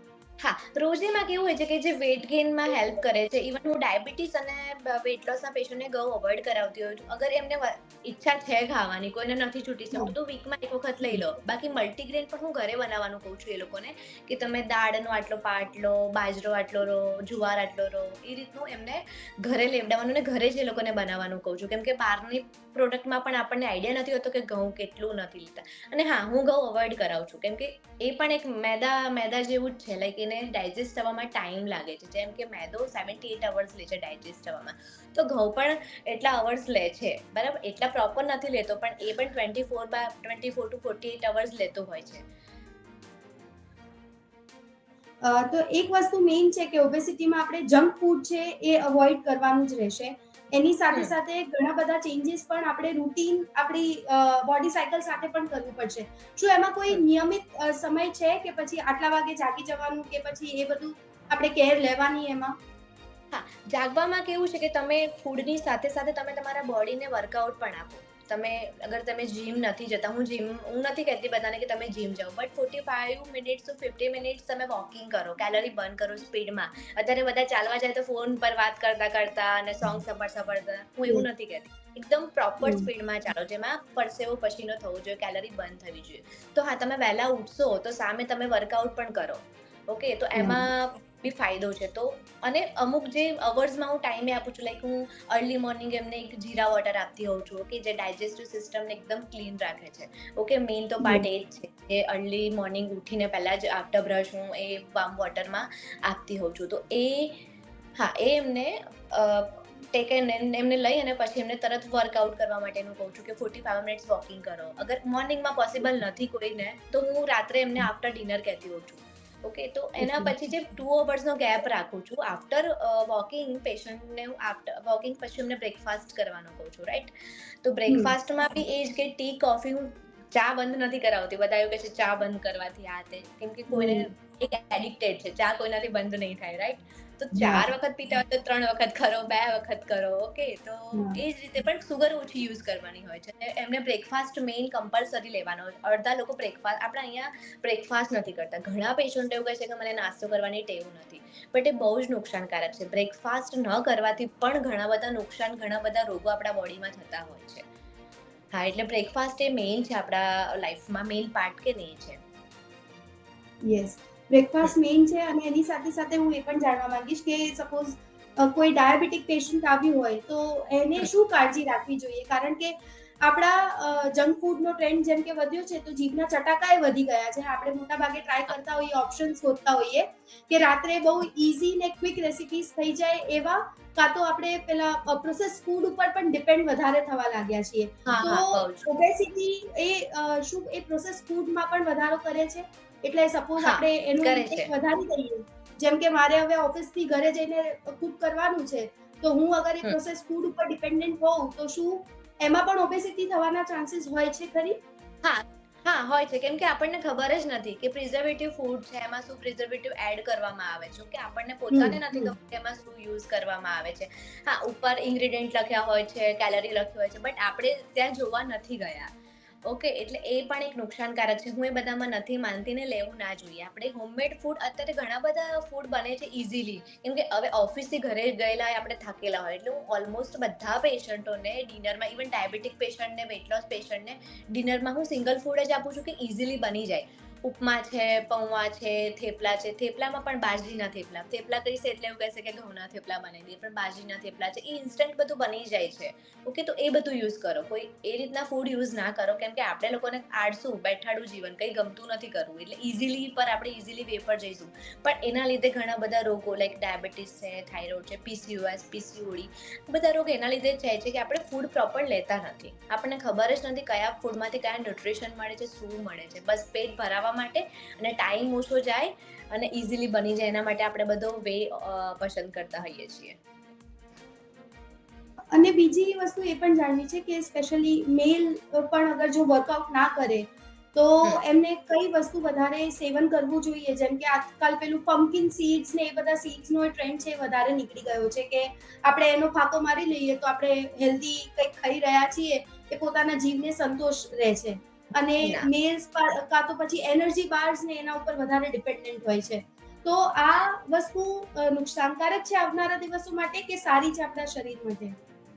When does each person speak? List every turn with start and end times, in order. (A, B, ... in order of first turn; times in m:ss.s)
0:00.4-0:42.2 A
0:45.2-1:02.5 B
1:03.3-1:47.4 A
1:22.6-1:22.9 B
1:30.4-1:30.6 B
1:41.0-1:41.2 B
1:48.0-2:07.1 A
2:00.0-2:00.3 B
2:07.6-2:37.6 A
2:07.9-2:08.1 B
2:13.7-2:14.1 B
2:17.3-2:17.7 B
2:20.9-2:21.2 B
2:38.5-2:42.2 A
2:43.6-3:24.8 B
3:08.0-3:08.8 A
3:13.6-3:14.7 A
3:25.2-3:39.1 A
3:31.7-3:32.3 B
3:39.7-4:33.4 A
4:35.5-5:05.2 B